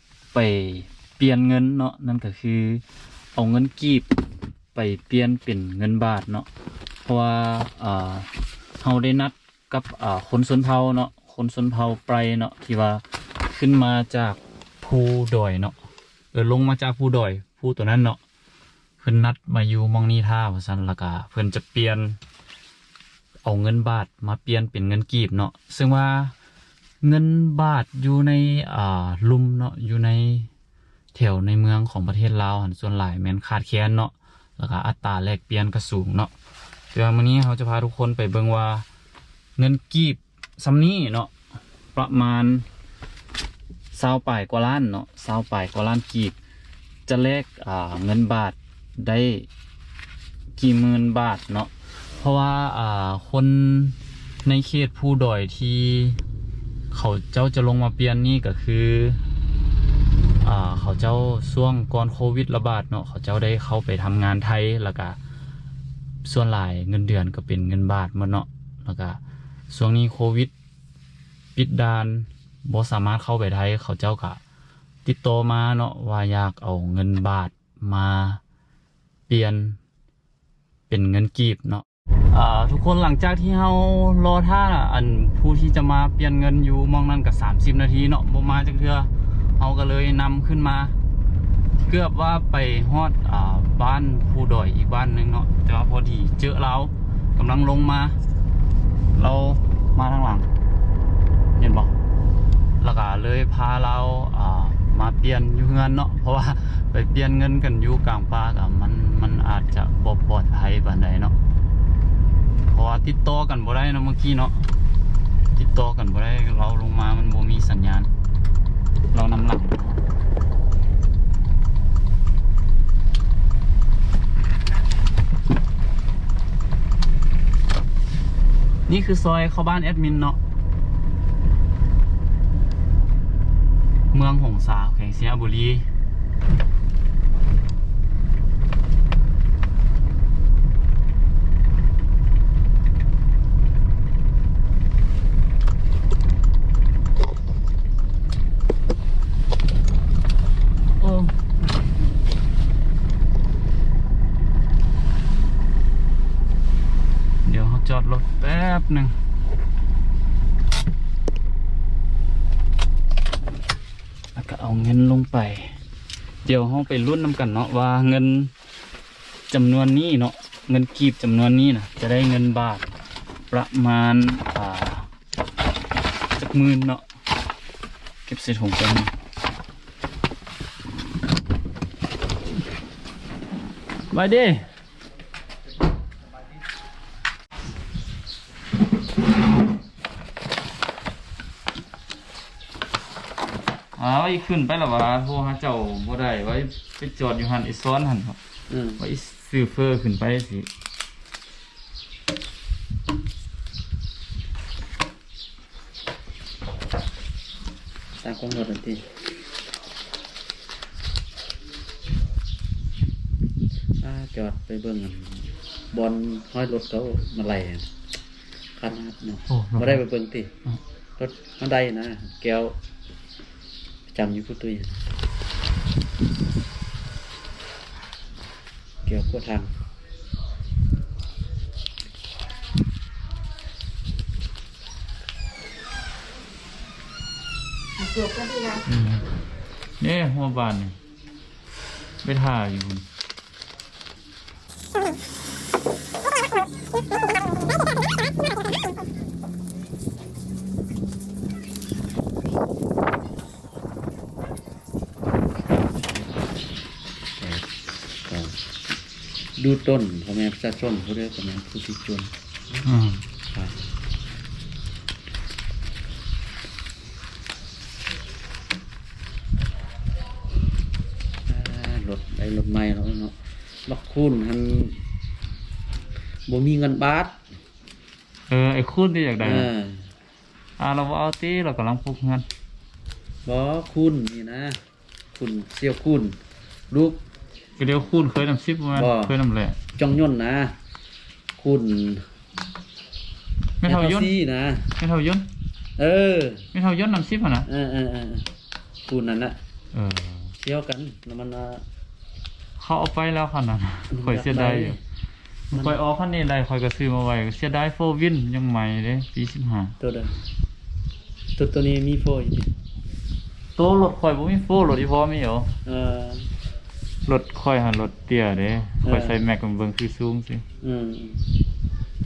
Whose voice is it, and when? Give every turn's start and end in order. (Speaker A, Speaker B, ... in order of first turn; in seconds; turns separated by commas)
Speaker A: 0.3-2.8, Speaker A: 3.3-4.1, Speaker A: 4.7-6.5, Speaker A: 7.0-8.3, Speaker A: 8.8-15.8, Speaker A: 16.3-18.2, Speaker A: 19.0-22.2, Speaker A: 23.4-26.3, Speaker A: 27.0-30.5, Speaker A: 31.1-36.3, Speaker A: 36.9-38.9, Speaker A: 39.6-41.3, Speaker A: 41.9-42.6, Speaker A: 43.9-46.4, Speaker A: 47.1-49.5, Speaker A: 50.6-56.2, Speaker A: 56.9-59.2, Speaker A: 60.4-65.2, Speaker A: 66.2-69.2, Speaker A: 69.7-70.5, Speaker A: 71.5-74.4, Speaker A: 75.0-78.4, Speaker A: 79.3-79.8, Speaker A: 80.9-91.0, Speaker A: 91.8-98.2, Speaker A: 99.1-100.5, Speaker A: 101.5-101.9, Speaker A: 102.8-111.3, Speaker A: 112.7-114.7, Speaker A: 115.5-118.1, Speaker A: 119.1-120.0, Speaker A: 128.9-130.4, Speaker A: 134.1-135.9, Speaker A: 151.0-151.3, Speaker A: 157.4-159.1, Speaker A: 164.3-165.8, Speaker A: 166.4-168.5, Speaker A: 169.5-172.8, Speaker A: 173.5-175.1, Speaker A: 176.3-177.0, Speaker A: 178.2-179.1, Speaker A: 184.1-184.7, Speaker A: 194.0-198.4, Speaker B: 198.7-199.0, Speaker A: 199.0-200.7, Speaker B: 208.2-209.0, Speaker B: 214.0-217.9, Speaker B: 218.8-220.5, Speaker A: 219.5-220.0, Speaker B: 221.2-222.8, Speaker B: 224.1-225.0, Speaker B: 229.0-229.7, Speaker A: 238.8-239.2, Speaker A: 240.0-241.0, Speaker A: 242.2-243.1, Speaker B: 257.4-257.7, Speaker B: 258.2-258.6, Speaker B: 259.6-262.3, Speaker A: 262.8-263.2, Speaker B: 271.5-273.3, Speaker B: 273.9-275.0, Speaker B: 276.5-277.4, Speaker A: 278.5-279.7, Speaker B: 279.4-280.1, Speaker A: 280.8-282.5, Speaker B: 283.4-284.8, Speaker B: 285.3-286.4, Speaker B: 286.9-287.2, Speaker A: 287.8-289.8, Speaker B: 288.9-289.3, Speaker B: 290.0-290.8, Speaker B: 291.6-292.2, Speaker A: 293.8-294.3, Speaker B: 293.8-294.9, Speaker A: 295.0-295.5, Speaker B: 296.0-296.7, Speaker A: 296.7-297.7, Speaker B: 297.7-298.5, Speaker B: 299.1-299.6, Speaker A: 299.9-300.5, Speaker B: 300.6-301.8, Speaker A: 302.8-305.0, Speaker B: 304.1-305.0, Speaker A: 305.7-309.9, Speaker B: 310.0-310.3, Speaker B: 311.6-312.7, Speaker A: 313.8-315.7, Speaker B: 315.9-316.5, Speaker A: 317.2-320.6, Speaker B: 319.0-319.4, Speaker B: 320.8-321.4